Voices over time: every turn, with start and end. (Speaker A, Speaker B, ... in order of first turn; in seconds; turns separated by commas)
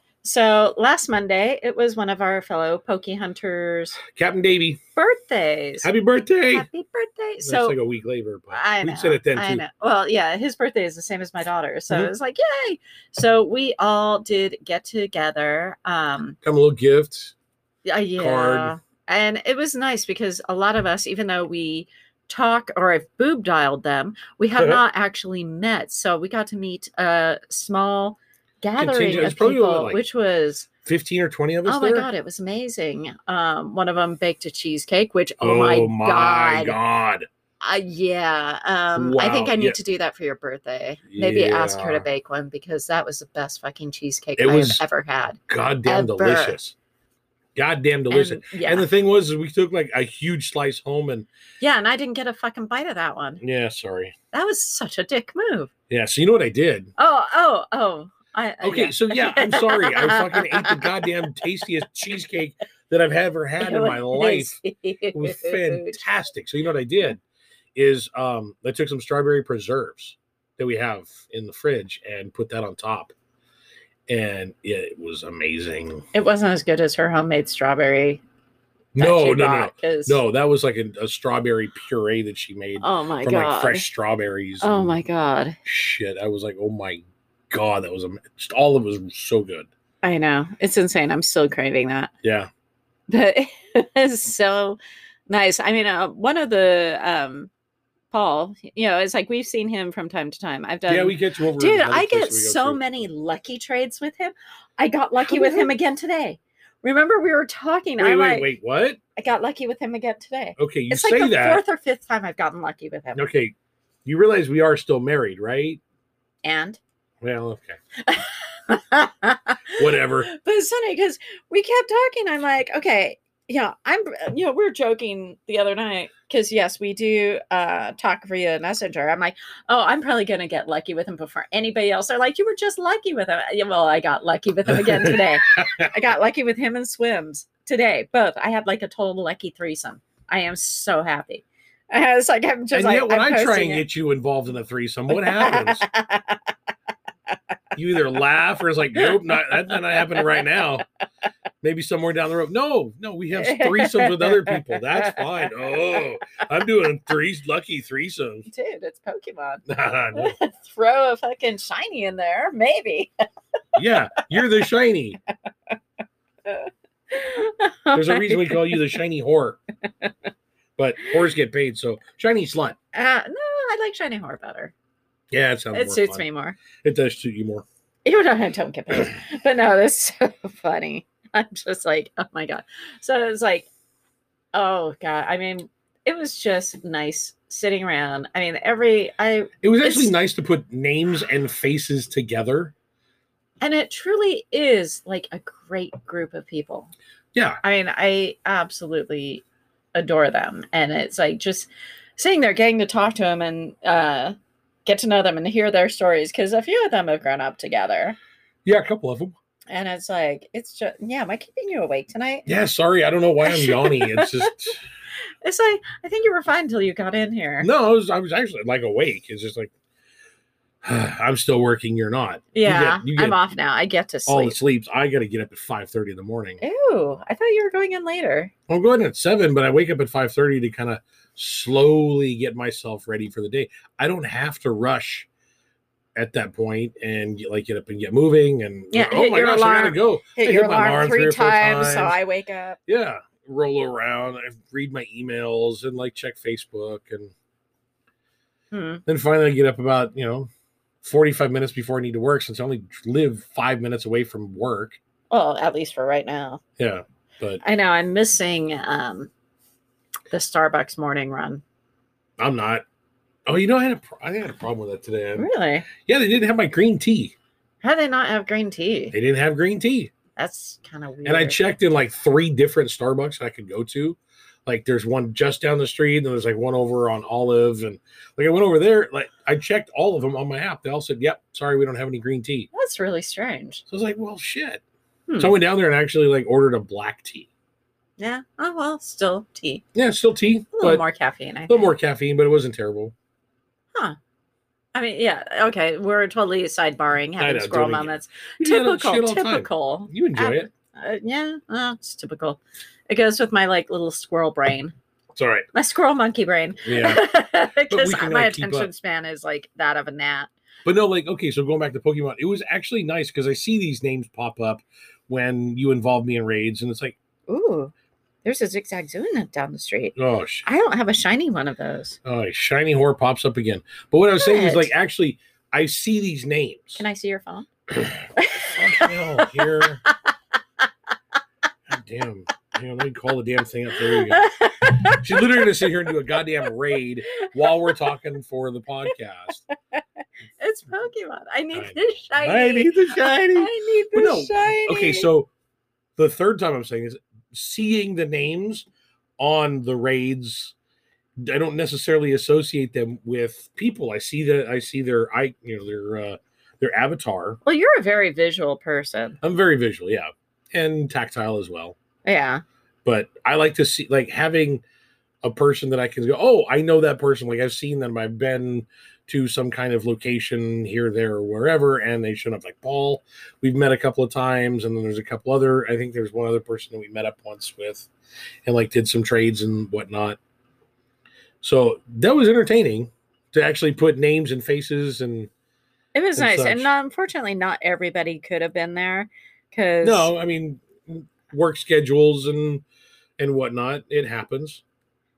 Speaker A: 0.2-4.0, Speaker B: 4.0-4.8, Speaker A: 5.0-5.9, Speaker B: 5.8-6.7, Speaker A: 6.5-7.8, Speaker B: 7.4-9.6, Speaker A: 8.5-16.4, Speaker B: 16.4-17.3, Speaker A: 17.8-30.7, Speaker B: 18.2-18.7, Speaker B: 28.8-30.0, Speaker B: 30.8-32.1, Speaker A: 31.6-36.8, Speaker B: 35.4-37.3, Speaker A: 37.6-46.6, Speaker B: 38.9-39.8, Speaker B: 41.1-42.1, Speaker B: 44.4-44.8, Speaker B: 45.5-46.7, Speaker B: 47.5-51.3, Speaker A: 48.1-48.9, Speaker A: 51.6-53.4, Speaker B: 53.4-54.1, Speaker A: 54.3-55.7, Speaker B: 55.9-56.9, Speaker A: 57.0-61.0, Speaker B: 58.6-64.6, Speaker A: 63.6-66.0, Speaker B: 65.1-67.2, Speaker B: 67.7-73.1, Speaker B: 74.1-76.0, Speaker A: 76.1-78.2, Speaker B: 78.9-85.0, Speaker A: 79.0-80.2, Speaker A: 82.8-83.9, Speaker A: 84.6-85.6, Speaker B: 85.6-89.7, Speaker A: 90.0-92.1, Speaker B: 92.2-92.5, Speaker A: 93.1-97.5, Speaker A: 98.1-108.5, Speaker B: 100.9-103.1, Speaker B: 105.2-105.7, Speaker B: 108.0-109.0, Speaker A: 109.2-113.3, Speaker B: 110.6-111.6, Speaker B: 113.1-113.5, Speaker B: 114.0-115.8, Speaker A: 116.4-116.8, Speaker B: 117.2-117.8, Speaker A: 118.0-143.8, Speaker B: 119.8-120.3, Speaker B: 134.7-135.9, Speaker B: 142.7-145.8, Speaker A: 145.1-146.5, Speaker B: 147.7-150.8, Speaker A: 149.0-150.6, Speaker B: 151.6-158.5, Speaker A: 153.3-155.5, Speaker A: 158.5-159.6, Speaker B: 159.7-160.3, Speaker A: 160.1-163.1, Speaker B: 163.7-165.2, Speaker A: 166.4-168.9, Speaker B: 167.9-169.6, Speaker B: 170.8-172.8, Speaker A: 172.9-174.7, Speaker B: 175.3-176.2, Speaker A: 175.7-176.6, Speaker B: 176.8-177.6, Speaker A: 178.0-183.7, Speaker A: 184.5-190.1, Speaker B: 189.6-192.7, Speaker A: 193.6-196.9, Speaker B: 197.3-197.6, Speaker A: 197.6-204.3, Speaker A: 204.8-208.2, Speaker B: 208.6-209.3, Speaker A: 209.7-212.5, Speaker B: 212.4-214.8, Speaker A: 213.4-214.7, Speaker A: 215.4-217.7, Speaker B: 217.6-219.7, Speaker B: 220.8-223.4, Speaker A: 222.5-224.5, Speaker B: 224.3-226.6, Speaker A: 226.6-228.5, Speaker B: 228.7-235.3, Speaker B: 236.2-242.2, Speaker A: 238.9-242.8, Speaker B: 242.8-247.3, Speaker A: 248.7-249.0, Speaker B: 249.1-250.5, Speaker B: 251.0-255.0, Speaker A: 255.3-256.6, Speaker B: 256.8-257.6, Speaker A: 257.6-259.3, Speaker A: 260.3-261.6, Speaker B: 262.4-262.8, Speaker B: 263.5-267.3, Speaker A: 265.4-265.9, Speaker A: 267.8-269.1, Speaker B: 269.1-270.1, Speaker A: 270.4-271.6, Speaker B: 271.2-282.7, Speaker A: 282.7-283.8, Speaker B: 283.9-284.8, Speaker A: 285.3-285.5, Speaker B: 285.4-287.5, Speaker A: 288.2-289.8, Speaker B: 289.9-291.0, Speaker A: 290.7-291.9, Speaker B: 291.7-293.1, Speaker A: 294.9-304.9, Speaker B: 297.4-300.7, Speaker B: 305.4-305.7, Speaker A: 305.7-310.5, Speaker B: 306.8-307.3, Speaker B: 307.9-308.9, Speaker B: 310.9-317.2, Speaker A: 317.5-317.9, Speaker A: 318.4-322.2, Speaker B: 320.1-320.6, Speaker B: 322.2-327.0, Speaker A: 324.4-324.9, Speaker A: 327.0-327.7, Speaker B: 328.0-330.0, Speaker A: 328.4-330.1, Speaker B: 331.9-334.5, Speaker A: 334.0-335.9, Speaker B: 335.1-339.6, Speaker A: 337.4-337.9, Speaker A: 340.6-345.3, Speaker B: 341.7-345.5, Speaker B: 346.2-348.9, Speaker B: 349.4-350.7, Speaker B: 351.4-357.6, Speaker A: 357.6-359.4, Speaker B: 359.4-361.9, Speaker A: 362.2-362.6, Speaker B: 363.0-364.8, Speaker B: 365.4-378.1, Speaker B: 378.6-380.4, Speaker B: 381.6-385.5, Speaker A: 386.1-390.3, Speaker B: 386.3-386.9, Speaker B: 390.0-392.8, Speaker B: 393.4-394.8